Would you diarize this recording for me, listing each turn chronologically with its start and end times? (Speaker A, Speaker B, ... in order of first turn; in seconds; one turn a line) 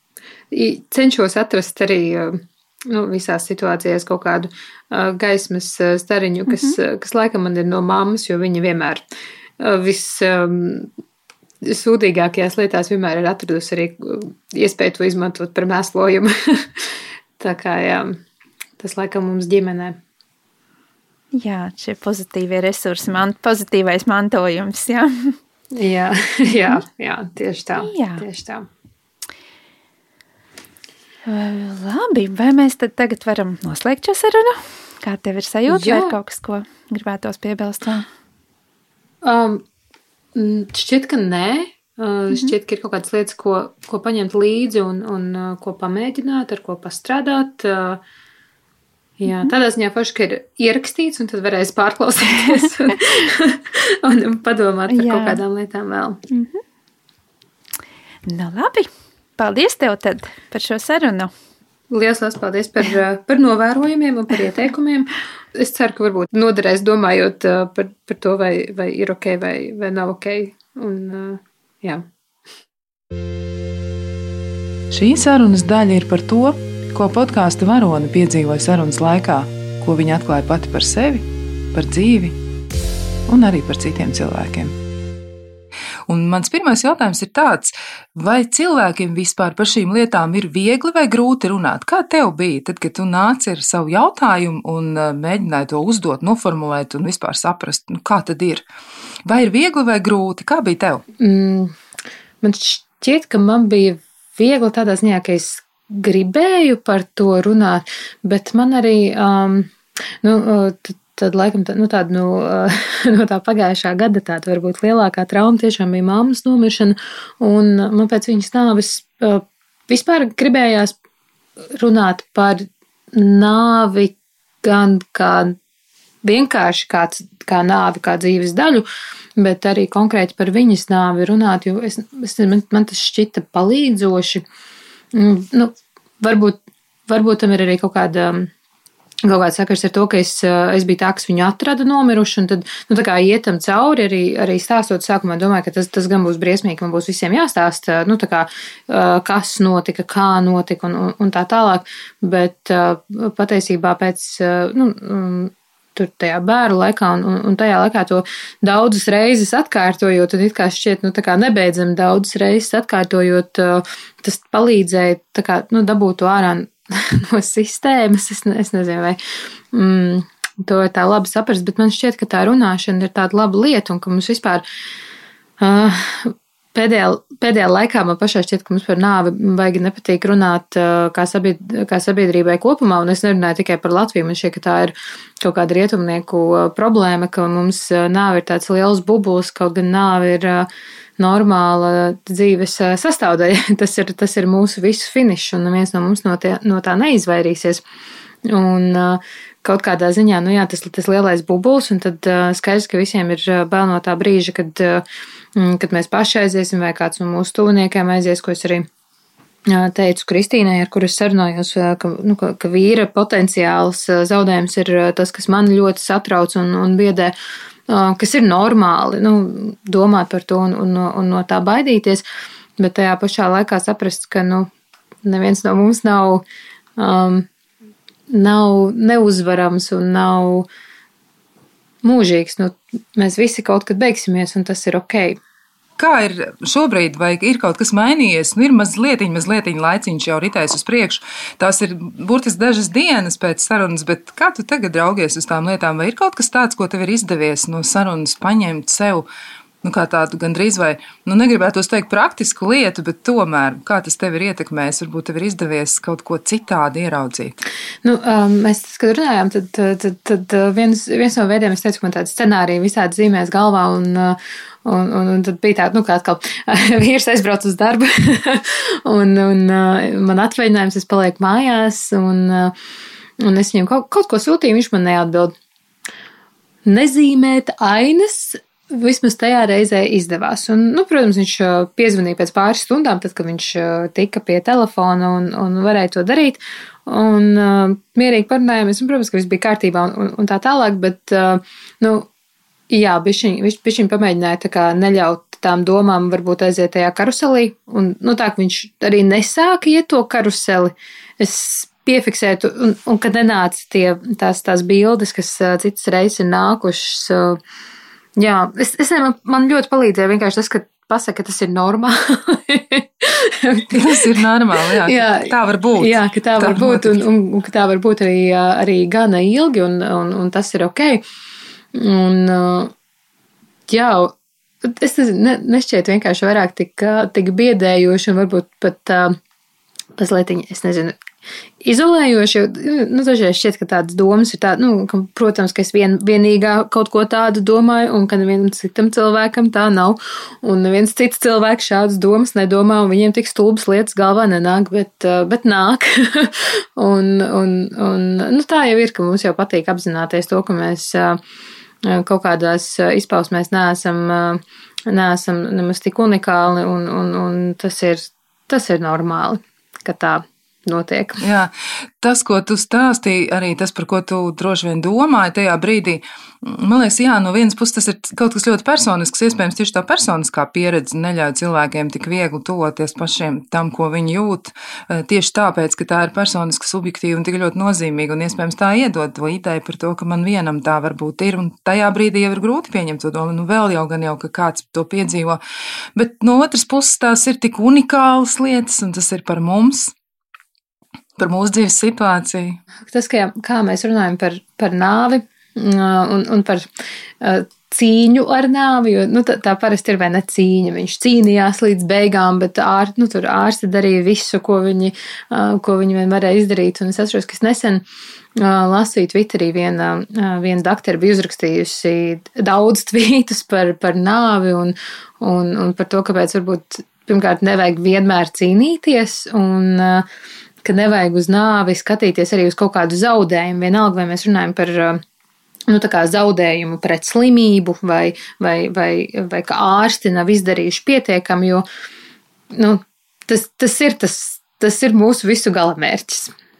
Speaker A: 0.5-9.0
Speaker B: 6.5-6.8
Speaker A: 9.6-10.9
Speaker A: 11.6-18.2
Speaker A: 18.8-20.0
Speaker B: 21.3-25.4
Speaker A: 25.7-28.7
Speaker B: 27.8-28.2
Speaker B: 31.2-38.0
Speaker A: 35.7-36.1
Speaker A: 39.2-39.6
Speaker A: 40.3-48.0
Speaker A: 49.2-56.2
Speaker B: 54.9-55.4
Speaker B: 56.3-56.6
Speaker B: 58.2-61.3
Speaker A: 61.9-72.0
Speaker C: 74.9-82.3
Speaker C: 83.3-84.7
Speaker C: 86.1-98.6
Speaker C: 99.2-101.0
Speaker A: 101.2-101.8
Speaker A: 102.4-121.0
Speaker A: 121.8-125.5
Speaker A: 126.2-134.4
Speaker A: 135.1-136.6
Speaker A: 137.1-138.5
Speaker A: 139.2-169.2
Speaker A: 169.7-174.6
Speaker A: 175.6-197.8
Speaker A: 198.4-205.0
Speaker A: 205.6-208.9
Speaker A: 209.7-217.3
Speaker A: 217.9-222.2
Speaker A: 222.8-224.7
Speaker A: 225.2-226.4
Speaker A: 227.0-227.5
Speaker A: 228.3-230.7
Speaker A: 232.0-235.4
Speaker C: 236.0-249.3
Speaker C: 249.8-257.6
Speaker A: 258.0-272.7
Speaker A: 273.4-275.5
Speaker A: 276.9-292.3
Speaker A: 292.9-307.6
Speaker A: 308.4-314.4
Speaker C: 313.9-317.2
Speaker A: 314.9-321.2
Speaker A: 321.9-322.9
Speaker A: 323.9-329.4
Speaker A: 330.2-331.2
Speaker A: 331.8-351.4
Speaker A: 352.0-361.4
Speaker C: 361.4-385.6
Speaker C: 386.1-390.1
Speaker C: 391.4-392.8
Speaker A: 393.1-396.9
Speaker A: 397.4-408.0
Speaker A: 408.6-420.2
Speaker A: 420.8-425.2
Speaker A: 425.9-431.8
Speaker A: 432.7-436.5